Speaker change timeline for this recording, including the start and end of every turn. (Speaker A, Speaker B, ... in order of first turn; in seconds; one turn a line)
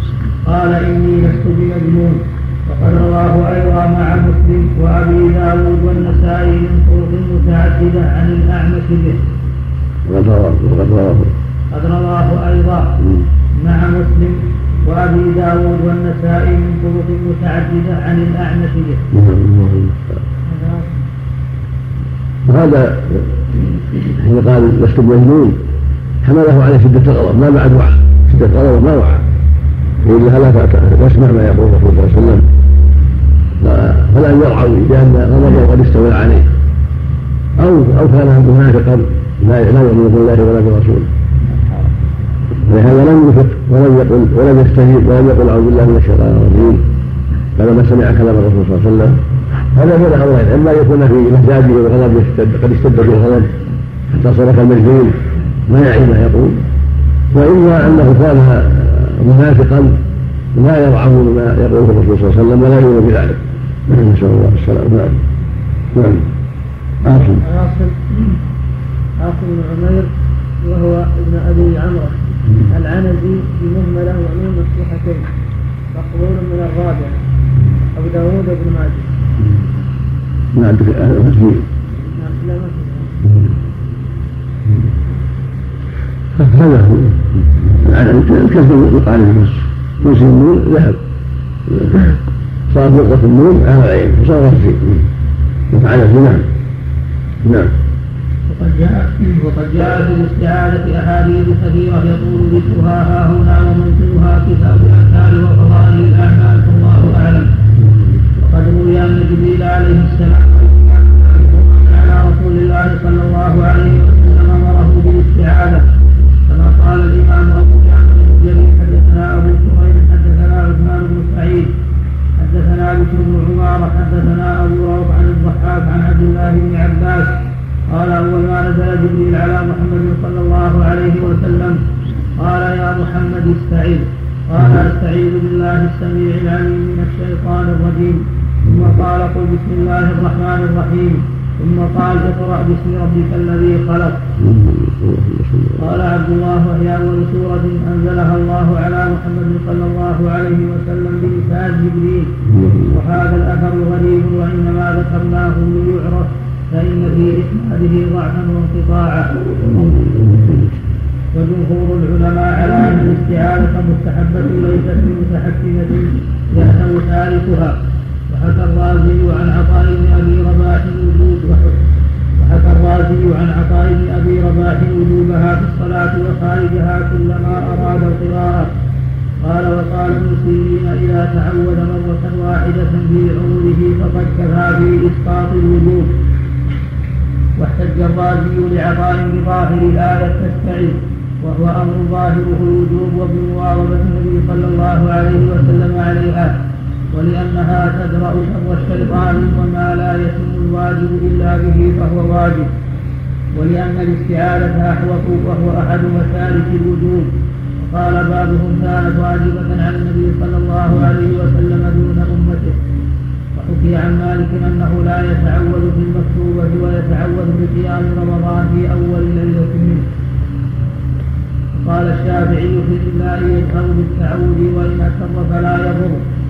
Speaker A: 0.4-9.2
Speaker B: 10.0-11.3
Speaker A: 11.7-12.9
Speaker B: 13.0-13.3
Speaker A: 13.6-19.0
Speaker B: 19.1-20.1
Speaker C: 20.5-20.9
Speaker B: 22.4-23.3
Speaker B: 24.0-25.6
Speaker B: 26.2-29.2
Speaker B: 30.0-32.4
Speaker B: 33.6-36.5
Speaker B: 37.6-41.1
Speaker B: 42.6-46.8
Speaker B: 47.5-49.2
Speaker B: 49.7-53.6
Speaker B: 54.1-56.6
Speaker B: 57.3-60.0
Speaker B: 60.5-65.2
Speaker B: 65.9-66.3
Speaker B: 67.0-67.4
Speaker C: 67.1-68.1
Speaker C: 69.2-70.1
Speaker C: 70.6-75.2
Speaker B: 72.4-72.7
Speaker C: 75.9-77.1
Speaker C: 77.9-79.1
Speaker B: 80.5-81.6
Speaker C: 82.1-83.1
Speaker B: 83.2-83.5
Speaker B: 86.3-91.0
Speaker B: 91.7-92.2
Speaker B: 92.7-95.1
Speaker B: 95.7-96.5
Speaker B: 97.4-97.7
Speaker A: 98.5-107.5
Speaker A: 108.4-115.8
Speaker A: 116.5-121.7
Speaker A: 122.4-127.3
Speaker A: 127.9-131.8
Speaker A: 132.4-144.2
Speaker B: 138.7-139.0
Speaker B: 144.4-145.9
Speaker A: 145.8-152.3
Speaker B: 152.5-153.0
Speaker A: 152.8-159.3
Speaker B: 159.6-160.7
Speaker A: 161.3-167.7
Speaker A: 168.3-171.8
Speaker A: 172.4-178.7
Speaker A: 179.4-186.1
Speaker A: 187.6-196.5
Speaker A: 197.1-202.7
Speaker A: 203.5-212.8
Speaker A: 213.5-220.0
Speaker A: 221.8-226.2